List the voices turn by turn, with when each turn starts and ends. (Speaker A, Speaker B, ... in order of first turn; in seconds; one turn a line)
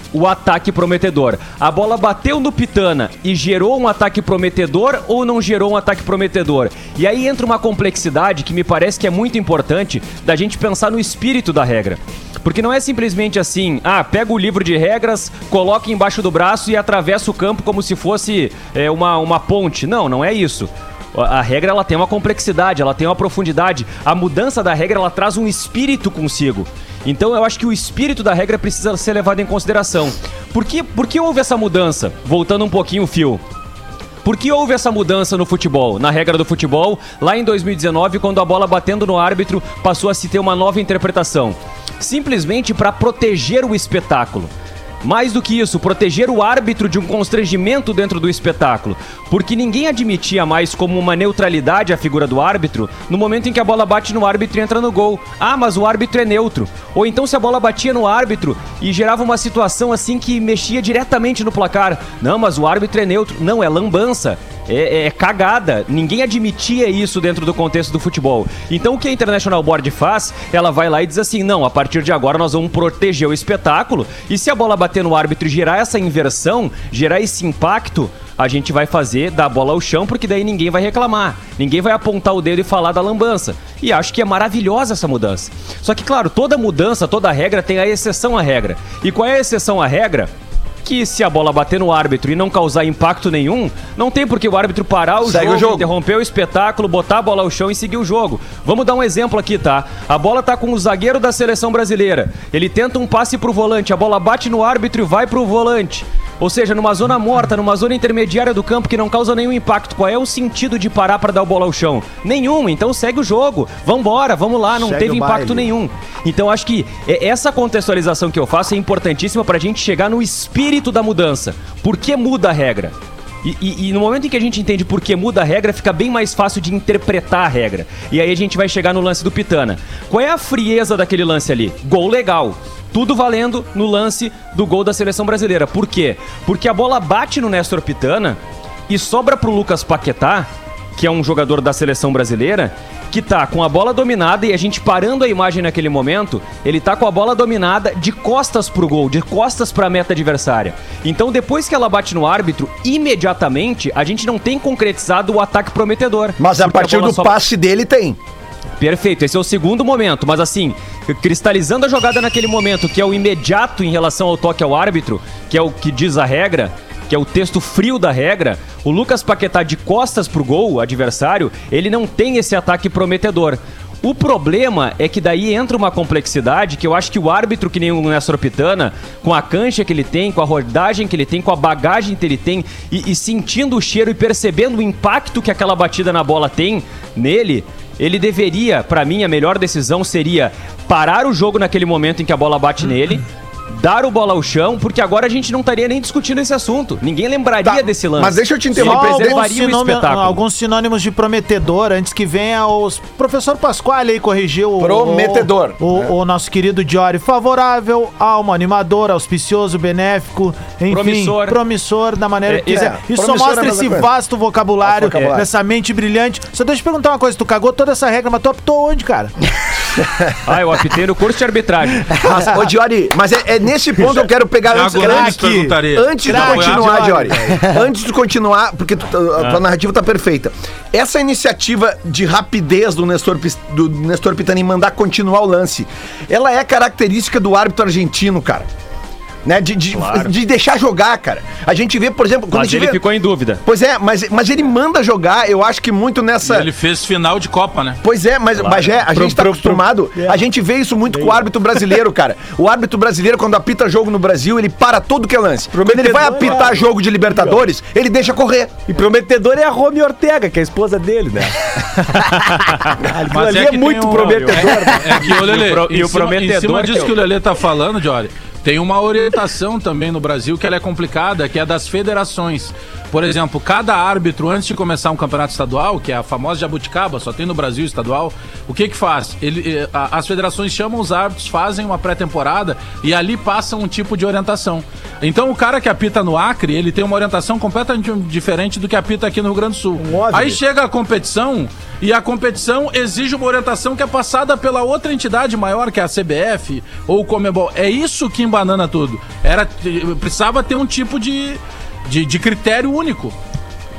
Speaker A: 0.1-33.4
Speaker A: 34.2-44.5
Speaker A: 45.0-90.3
Speaker A: 90.8-157.4
Speaker B: 95.2-95.9
Speaker C: 114.9-115.2
Speaker B: 156.4-158.2
Speaker A: 158.8-200.4
Speaker B: 197.6-199.4
Speaker C: 198.8-219.3
Speaker B: 204.8-206.1
Speaker A: 210.9-211.6
Speaker A: 212.5-212.9
Speaker B: 212.7-214.1
Speaker B: 214.8-215.5
Speaker A: 220.4-222.2
Speaker B: 222.2-238.7
Speaker D: 224.7-227.1
Speaker C: 224.8-227.7
Speaker B: 239.4-243.0
Speaker A: 239.9-240.3
Speaker A: 242.5-243.6
Speaker B: 243.7-246.7
Speaker D: 246.4-248.0
Speaker B: 248.0-258.9
Speaker E: 249.2-250.4
Speaker E: 251.2-251.5
Speaker E: 255.7-256.8
Speaker E: 258.9-265.2
Speaker D: 263.2-303.4
Speaker A: 264.2-267.1
Speaker E: 290.1-290.6